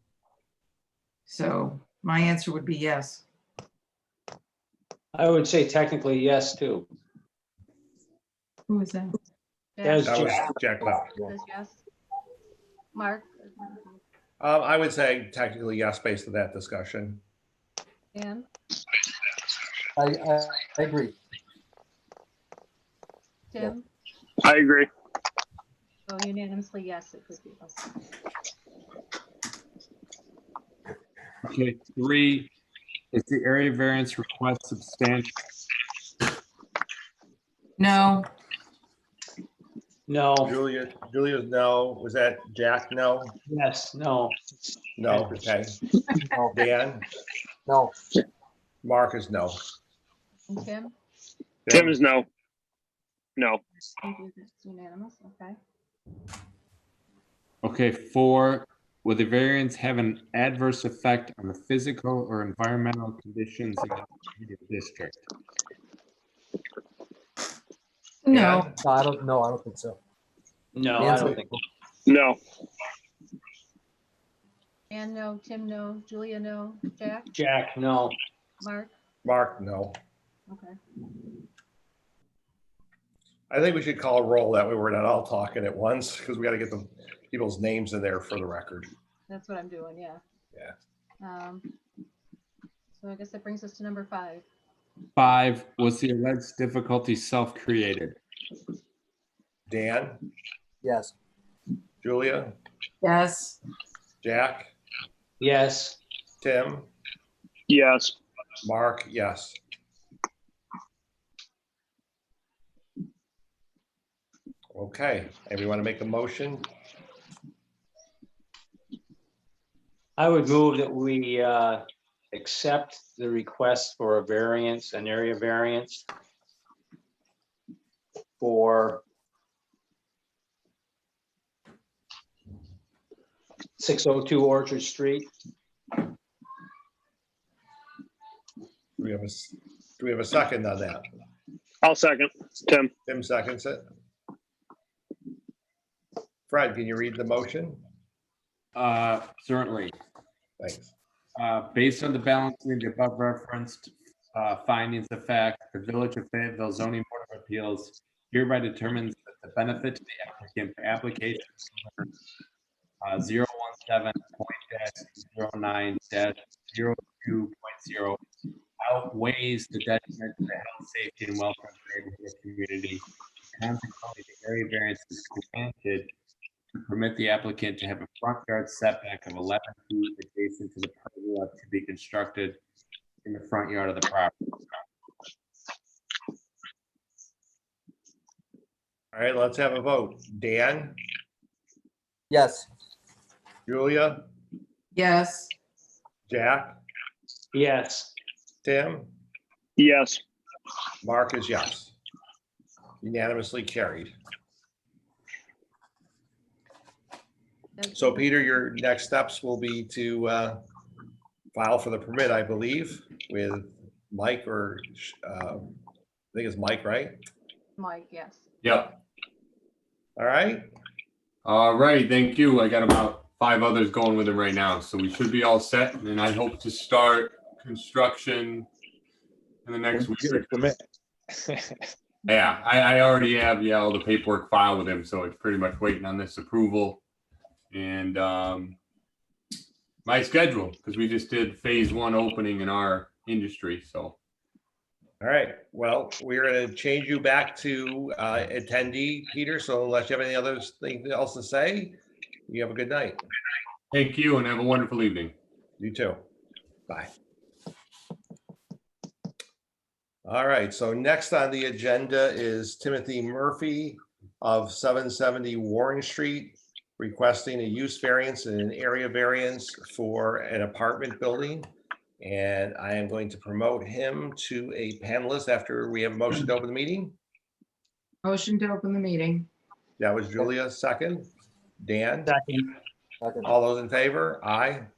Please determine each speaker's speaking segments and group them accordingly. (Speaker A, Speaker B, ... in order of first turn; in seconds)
Speaker A: 1.3-3.2, 8.7-9.2, 37.8-38.3, 68.2-68.7, 103.0-103.6, 194.9-195.5, 278.2-279.5
Speaker B: 5.1-6.9, 9.8-10.5, 40.1-40.5, 43.5-44.4, 70.7-71.5, 77.3-78.2, 105.4-106.0, 120.2-126.0, 128.4-129.0, 133.8-135.3, 197.5-198.1, 230.1-230.7, 282.2-282.7
Speaker C: 9.8-10.2, 10.8-11.8, 12.9-14.0, 18.1-18.5, 23.5-23.9, 26.1-28.0, 50.5-50.9, 54.0-55.5, 74.9-77.3, 78.6-78.9, 80.5-80.8, 89.3-90.2, 91.2-91.7, 93.0-94.4, 207.8-208.2, 217.8-218.5
Speaker D: 10.0-11.1, 14.4-17.2, 40.4-43.4, 45.0-45.8, 46.5-47.0, 48.8-49.6, 51.6-52.0, 68.3-68.8, 79.2-79.9, 83.5-88.9, 99.7-100.2, 102.0-102.5, 104.2-104.7, 106.4-106.9, 108.6-109.6, 114.7-116.7, 139.0-141.0, 143.1-143.8, 146.5-147.8, 150.6-150.9, 189.1-190.9, 193.7-194.2, 196.3-196.8, 198.6-199.1, 201.0-201.9, 203.0-204.1, 207.9-210.6, 211.5-215.7, 216.3-217.2, 220.2-220.7, 245.2-253.2, 255.8-256.2, 260.2-271.6, 272.2-277.1, 280.0-281.3, 281.8-282.4, 283.4-284.9
Speaker E: 19.9-21.1, 46.3-46.7, 47.6-47.9, 68.8-70.0, 71.0-71.6, 100.8-101.1, 192.3-192.7, 283.2-283.5
Speaker F: 24.4-24.9, 51.7-52.3, 53.4-53.6, 72.1-72.4, 107.7-108.2, 141.8-142.9, 199.8-200.2
Speaker G: 31.4-32.5, 33.1-35.3, 57.6-65.2, 95.2-98.2, 148.7-150.0, 151.3-162.1, 163.0-168.2, 168.8-176.1, 176.7-182.6, 183.2-184.3
Speaker H: 218.6-218.9, 221.4-228.7, 229.6-230.7, 232.3-237.0, 237.7-238.8, 240.0-244.2, 253.9-255.3